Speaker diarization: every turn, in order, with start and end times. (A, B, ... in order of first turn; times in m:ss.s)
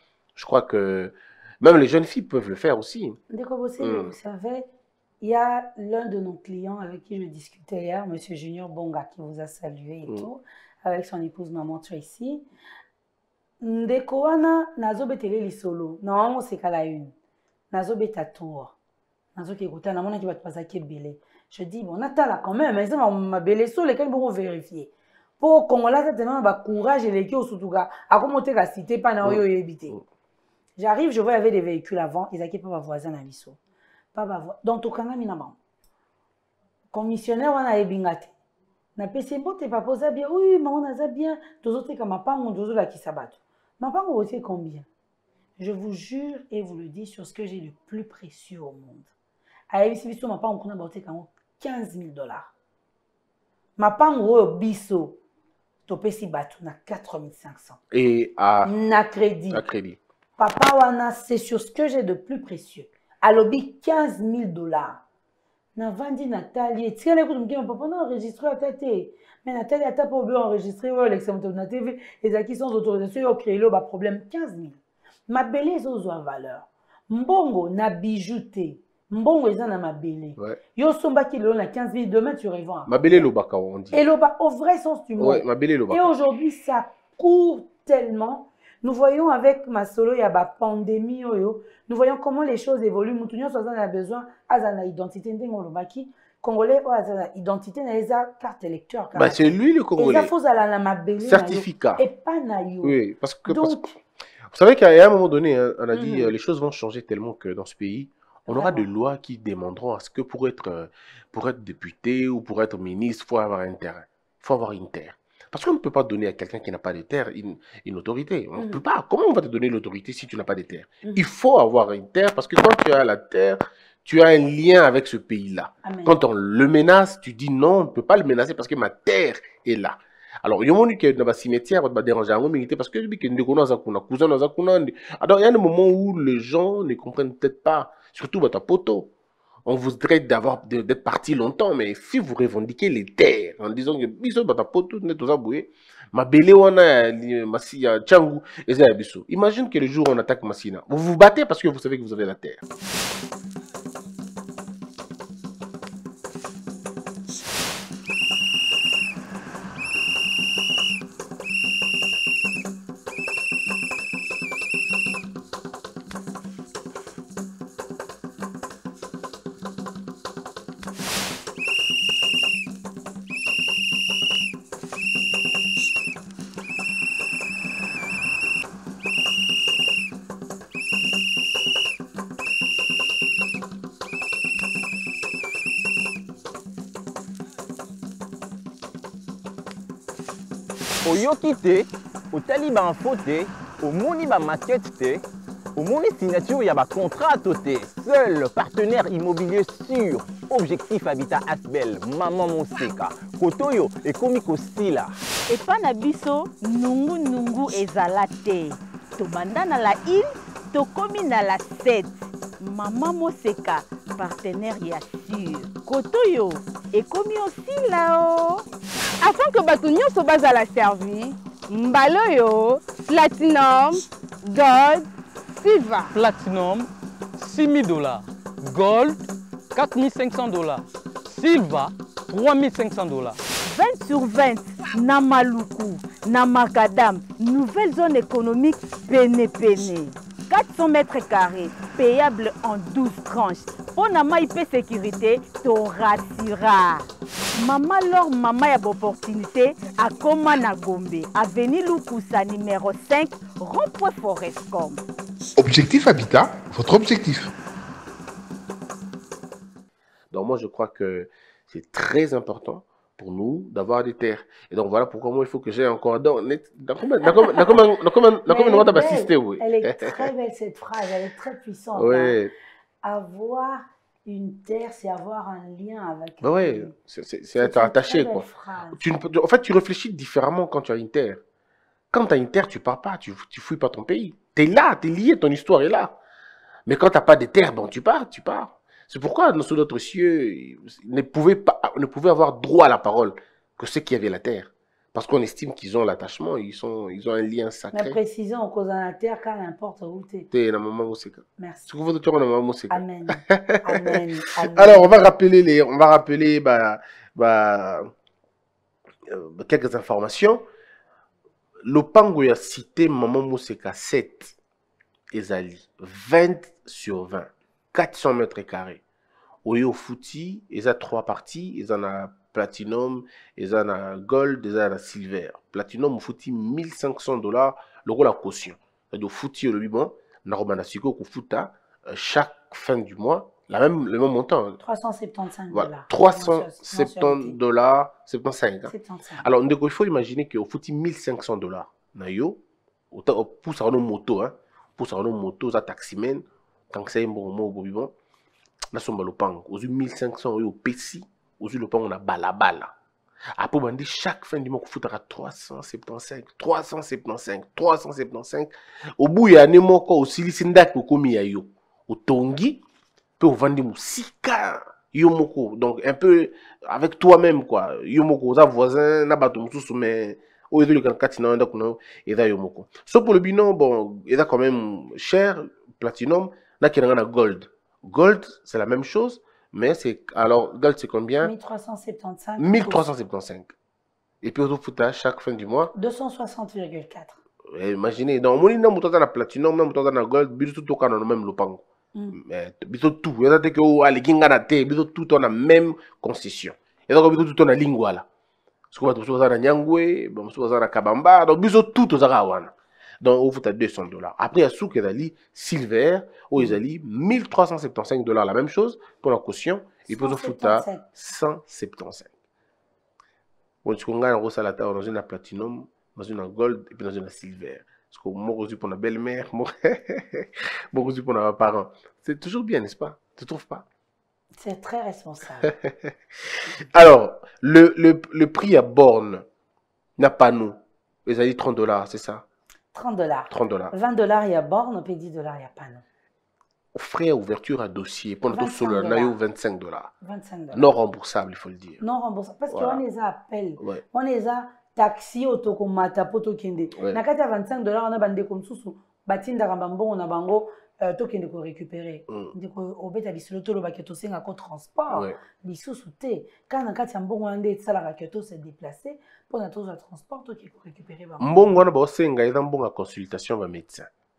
0:00.4-0:03.2 A
0:03.3-0:12.5 B
0:03.8-0:04.1 A
0:13.6-0:17.1 B
0:17.7-0:18.8 B
0:19.3-0:30.0 B
0:29.2-0:30.0 A
0:30.8-0:33.6 B
0:34.1-0:35.6 B
0:36.9-0:38.3 B
0:39.0-0:44.9 B
0:45.6-0:49.1 B
0:49.7-0:52.5 B
0:53.8-0:55.2 B
0:55.9-0:57.8 B
0:57.9-0:58.7 A
0:58.6-0:59.6 B
0:59.5-1:00.0 A
1:00.4-1:05.0 B
1:05.8-1:23.3 B
1:22.9-1:24.0 A
1:23.9-1:43.9 B
1:25.2-1:26.1 A
1:39.1-1:40.3 A
1:41.2-1:42.0 A
1:42.8-1:44.0 A
1:44.5-2:19.1 A
1:45.9-1:46.3 B
1:48.5-1:48.9 B
1:58.6-1:58.8 B
2:05.8-2:06.2 B
2:19.6-2:32.6 A
3:11.0-3:15.2 C
3:15.7-3:25.1 C
3:25.5-3:38.6 D
3:39.2-3:46.1 E
3:46.1-3:53.4 F
3:53.6-4:15.0 D
4:15.6-4:17.5 G
4:20.3-4:30.3 A
4:28.4-4:32.4 B
4:31.9-4:32.5 A
4:33.0-4:36.9 B
4:36.4-4:41.4 A
4:37.6-4:39.1 B
4:42.1-4:46.2 A
4:46.8-4:58.2 A
4:57.9-5:00.5 B
5:00.5-5:08.1 A
5:01.6-5:01.9 B
5:02.9-5:05.1 B
5:09.2-5:10.6 A
5:11.8-5:14.5 A
5:15.3-5:19.0 A
5:19.6-5:34.8 A
5:34.8-5:37.6 B
5:35.7-5:48.1 A
5:38.9-5:39.5 B
5:48.9-5:52.9 A
5:53.6-6:02.8 A
6:03.4-6:21.5 A
6:21.4-6:23.1 B
6:22.6-6:23.7 A
6:24.4-6:25.9 A
6:25.9-6:27.4 B
6:27.7-6:38.2 A
6:38.9-6:52.3 A
6:50.1-6:51.1 B
6:53.8-7:03.8 A
7:04.5-7:05.7 B
7:05.8-7:06.1 A
7:06.9-7:09.4 A
7:10.2-7:12.4 A
7:12.9-7:16.0 B
7:13.5-7:13.9 A
7:16.9-7:20.1 A
7:18.5-7:19.4 B
7:20.2-7:20.9 B
7:20.7-7:22.0 A
7:22.0-7:41.7 B
7:22.7-7:23.0 A
7:26.9-7:27.2 A
7:32.3-7:32.5 A
7:35.1-7:35.4 A
7:41.4-7:44.1 A